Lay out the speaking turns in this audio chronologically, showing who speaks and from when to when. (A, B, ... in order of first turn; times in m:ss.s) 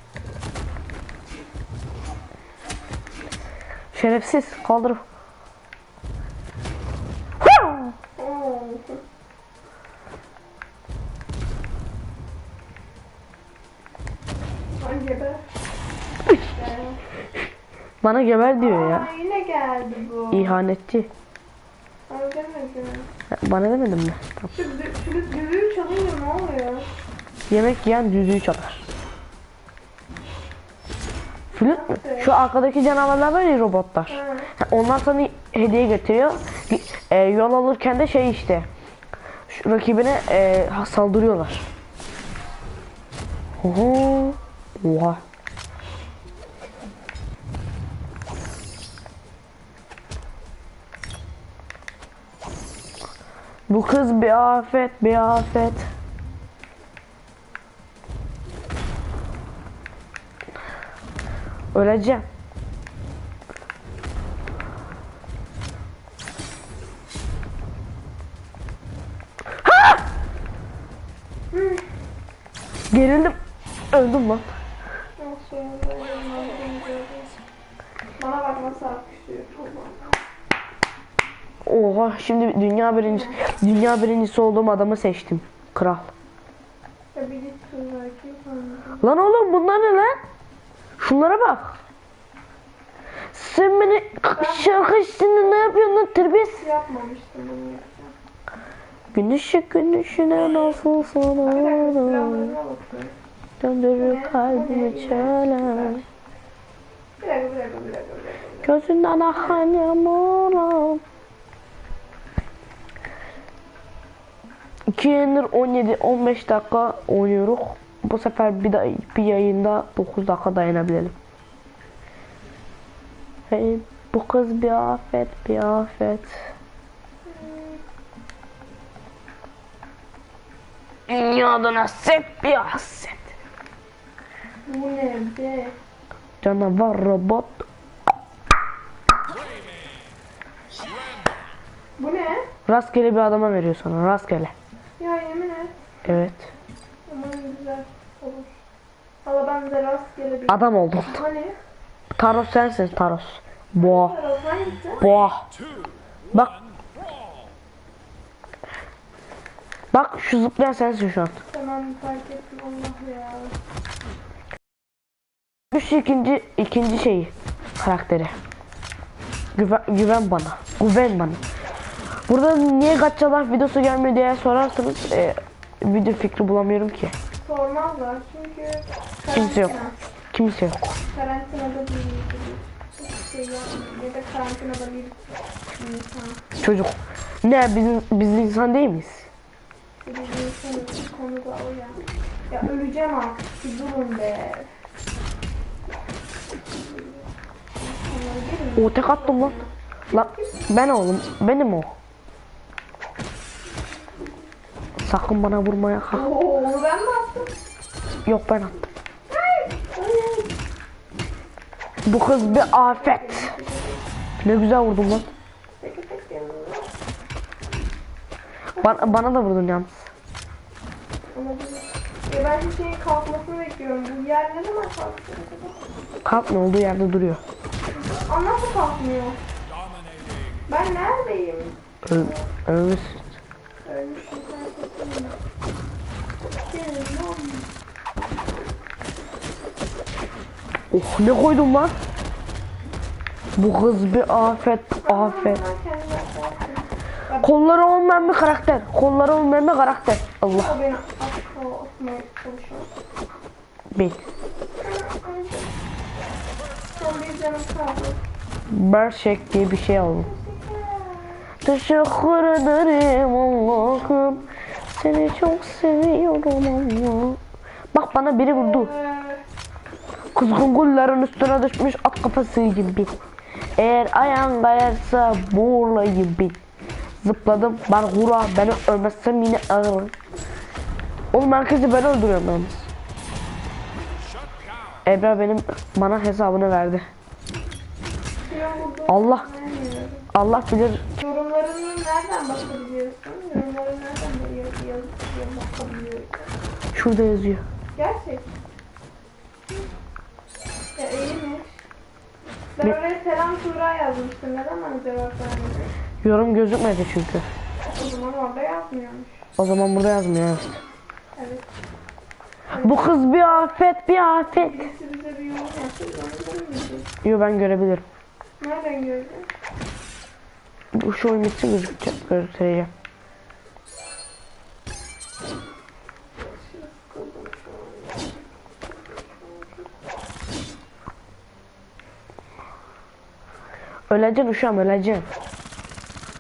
0:03.9-0:05.0 A
0:08.2-0:09.0 B
0:14.8-0:15.5 B
0:16.4-0:17.0 B
0:18.0-0:19.1 A
0:18.6-0:20.6 B
0:20.3-0:21.1 A
0:22.1-0:23.1 B
0:23.3-0:24.5 A
0:24.5-0:26.9 B
0:27.5-0:28.9 A
0:31.5-0:38.7 A
0:31.6-0:32.4 B
0:34.1-0:34.5 B
0:39.5-0:41.7 A
0:43.6-0:45.2 A
0:53.7-0:55.9 A
1:01.7-1:02.2 A
1:09.6-1:10.0 A
1:11.5-1:11.8 B
1:12.9-1:13.4 A
1:13.9-1:14.5 A
1:15.2-1:17.4 B
1:18.2-1:20.2 B
1:21.6-1:26.1 A
1:23.0-1:23.4 B
1:27.1-1:29.1 B
1:29.0-1:30.2 A
1:31.0-1:31.8 A
1:33.3-1:36.6 A
1:34.3-1:38.1 B
1:39.1-1:42.6 A
1:41.5-1:43.2 B
1:43.6-1:46.0 A
1:44.0-1:46.0 B
1:47.2-1:49.6 B
1:48.6-1:51.0 A
1:54.9-2:01.2 A
2:03.5-2:06.3 A
2:07.3-2:07.8 B
2:11.1-2:13.3 A
2:14.7-2:15.8 B
2:16.4-2:17.6 A
2:22.0-2:22.5 B
2:22.7-2:24.5 A
2:25.0-2:26.0 B
2:26.0-2:26.5 A
2:27.1-2:28.6 B
2:29.2-2:31.6 B
2:30.5-2:31.2 A
2:32.2-2:34.1 A
2:33.8-2:35.1 B
2:35.0-2:35.5 A
2:36.3-2:36.6 A
2:39.9-2:41.4 A
2:41.5-2:43.6 B
2:45.7-2:48.3 A
2:49.6-2:51.4 A
2:52.3-2:57.1 A
2:57.4-3:00.0 B
2:59.3-2:59.8 A
3:00.3-3:01.0 A
3:01.1-3:06.4 B
3:06.6-3:09.3 A
3:10.0-3:12.0 B
3:12.5-3:14.7 B
3:16.7-3:20.6 B
3:18.8-3:19.6 A
3:20.1-3:21.9 A
3:25.0-3:26.3 A
3:26.1-3:27.5 B
3:28.3-3:28.9 A
3:29.3-3:30.5 B
3:32.1-3:33.5 A
3:32.1-3:34.1 B
3:34.4-3:35.3 A
3:35.8-3:36.9 B
3:38.8-3:39.2 B
3:38.8-3:40.1 A
3:41.3-3:45.8 B
3:46.2-3:47.4 A
3:47.9-3:49.4 B
3:50.7-3:52.5 B
3:52.0-3:53.3 A
3:53.8-3:55.4 B
3:56.7-3:57.7 B
4:00.9-4:01.9 A
4:03.6-4:05.6 A
4:05.0-4:08.4 B
4:07.4-4:10.8 A
4:10.5-4:12.9 B
4:13.9-4:14.2 A
4:14.8-4:15.7 B
4:16.9-4:18.2 B
4:18.7-4:20.3 A
4:20.2-4:21.5 B
4:21.6-4:27.4 A
4:27.9-4:28.9 A
4:28.4-4:29.4 B
4:30.4-4:33.1 A
4:33.8-4:36.6 A
4:37.2-4:40.1 A
4:41.3-4:42.9 A
4:45.1-4:47.1 A
4:48.4-4:50.3 B
4:49.1-4:49.5 A
4:50.3-4:51.0 A
4:51.2-4:56.5 B
4:56.9-4:57.6 A
4:57.9-4:58.5 B
5:01.0-5:01.8 B
5:02.8-5:05.9 B
5:06.2-5:07.5 A
5:07.9-5:09.5 B
5:09.6-5:10.8 A
5:11.4-5:11.7 B
5:12.7-5:13.4 B
5:12.8-5:14.9 A
5:14.5-5:17.1 B
5:17.2-5:18.0 A
5:18.6-5:19.5 B
5:20.9-5:22.9 A
5:26.4-5:29.9 B
5:34.1-5:35.3 A